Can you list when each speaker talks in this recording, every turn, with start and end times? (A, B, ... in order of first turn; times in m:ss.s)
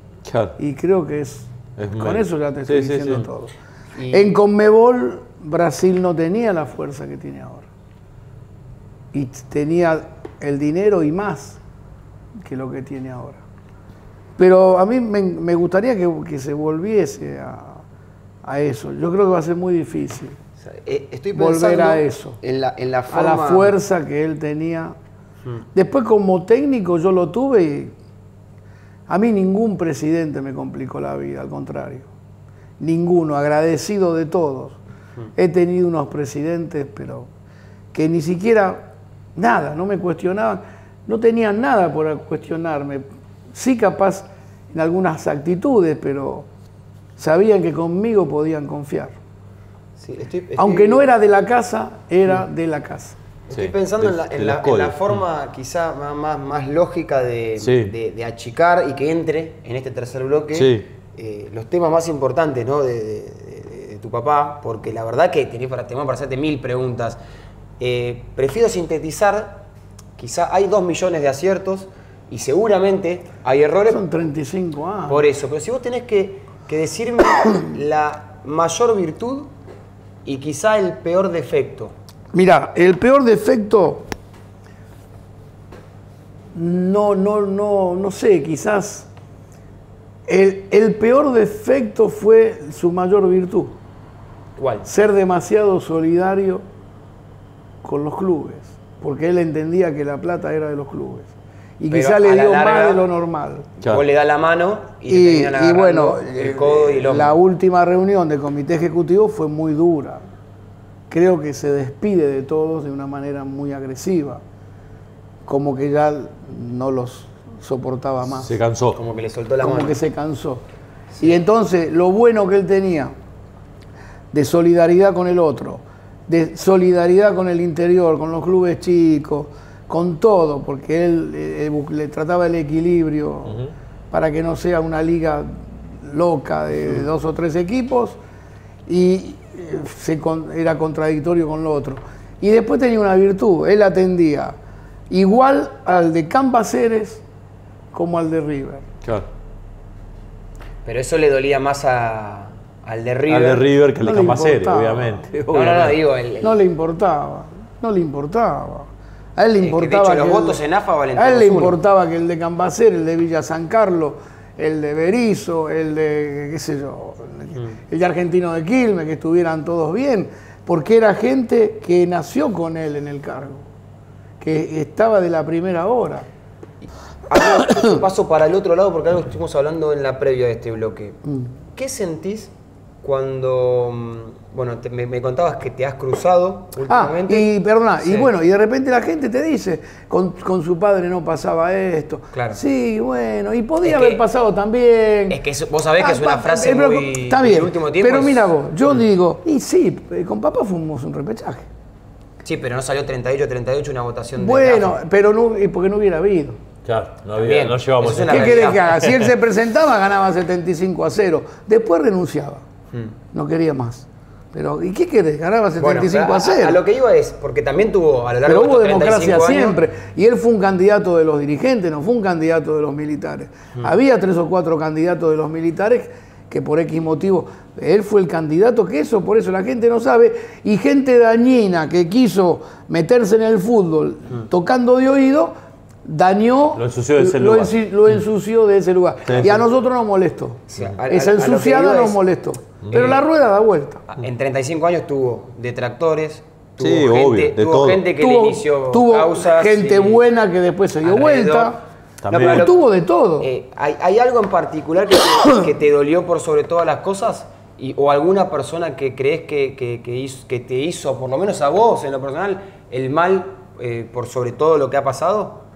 0:00.2-0:00.5 A
0:00.6-0:03.5 B
0:01.8-0:03.2 A
0:03.9-0:04.3 C
0:04.1-0:07.7 B
0:09.1-0:11.6 B
0:12.4-0:13.4 B
0:14.4-0:17.8 B
0:18.4-0:20.4 B
0:20.6-0:23.8 C
0:21.3-0:22.4 B
0:23.1-0:24.9 B
0:25.7-0:27.9 B
0:29.1-0:32.1 B
0:32.8-0:34.8 B
0:35.4-0:37.3 B
0:37.9-0:46.5 B
0:47.2-0:49.2 B
0:50.0-0:51.1 C
0:50.6-0:53.2 B
0:53.5-1:07.2 C
0:53.5-0:55.2 A
0:57.6-0:57.9 A
1:00.5-1:00.8 A
1:07.8-1:09.6 C
1:10.2-1:14.0 C
1:13.9-1:15.2 B
1:15.1-1:19.5 C
1:20.2-1:21.9 C
1:22.3-1:24.0 B
1:26.5-1:29.1 B
1:30.3-1:33.7 B
1:34.6-1:34.9 C
1:34.8-1:36.6 B
1:37.8-1:43.7 B
1:41.9-1:43.0 C
1:43.9-1:47.4 C
1:45.1-1:50.3 B
1:51.1-1:54.4 B
1:55.4-1:58.5 B
1:58.4-1:59.0 A
1:58.9-2:00.0 C
1:59.6-2:00.6 B
2:01.2-2:03.1 B
2:04.3-2:18.2 B
2:13.5-2:13.7 A
2:18.9-2:24.6 B
2:25.1-2:27.2 B
2:27.9-2:28.9 B
2:30.8-2:33.6 C
2:33.3-2:36.0 A
2:34.0-2:35.3 B
2:35.5-2:36.5 C
2:36.4-2:40.6 B
2:39.6-2:41.8 C
2:41.1-2:53.7 B
2:54.4-2:56.2 B
2:57.3-3:01.2 C
3:01.2-3:01.5 B
3:01.7-3:08.3 C
3:06.9-3:15.4 B
3:12.3-3:12.6 C
3:13.8-3:14.2 C
3:15.3-3:18.5 C
3:16.0-3:21.7 B
3:22.4-3:25.0 C
3:24.4-3:26.6 B
3:26.8-3:29.1 A
3:27.4-3:28.8 C
3:28.1-3:32.6 B
3:33.3-3:36.8 B
3:35.8-3:39.8 C
3:38.4-3:55.5 B
3:56.0-4:04.0 B
3:56.8-3:58.2 A
3:59.2-3:59.6 A
4:00.7-4:02.2 C
4:02.8-4:03.2 A
4:04.1-4:10.2 C
4:06.8-4:08.0 A
4:08.2-4:11.8 B
4:11.0-4:11.7 C
4:12.2-4:12.7 A
4:12.3-4:12.7 C
4:12.4-4:13.5 B
4:13.4-4:25.6 C